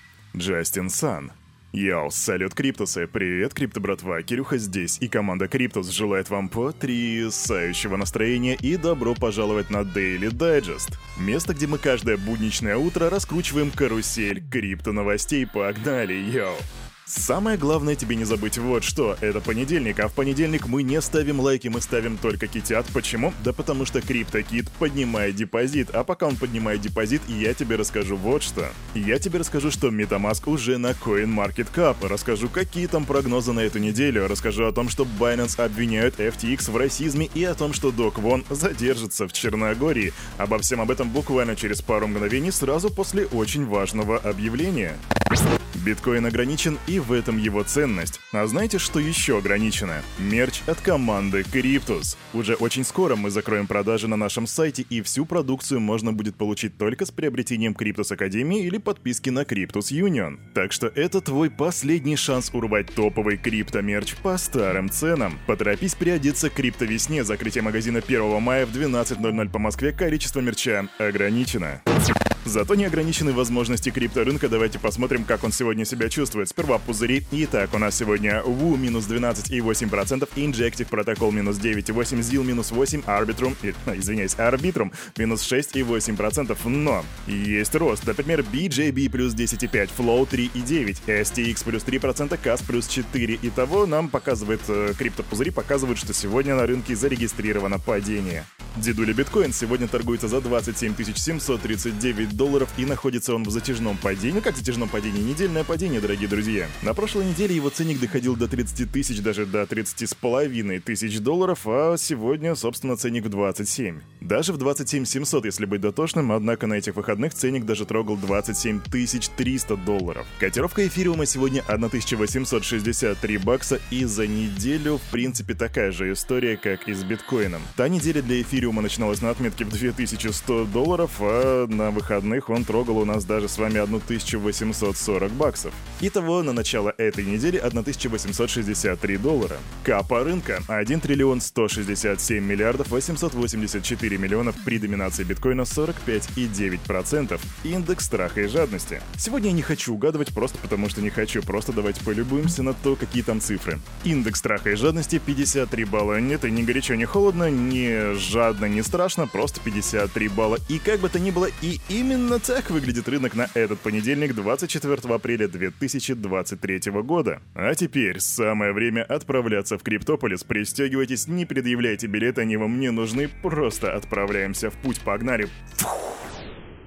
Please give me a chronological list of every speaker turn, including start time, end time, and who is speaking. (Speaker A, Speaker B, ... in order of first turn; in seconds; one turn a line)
Speaker A: 0.3-45.0
Speaker A: 45.7-71.8
Speaker A: 72.4-176.2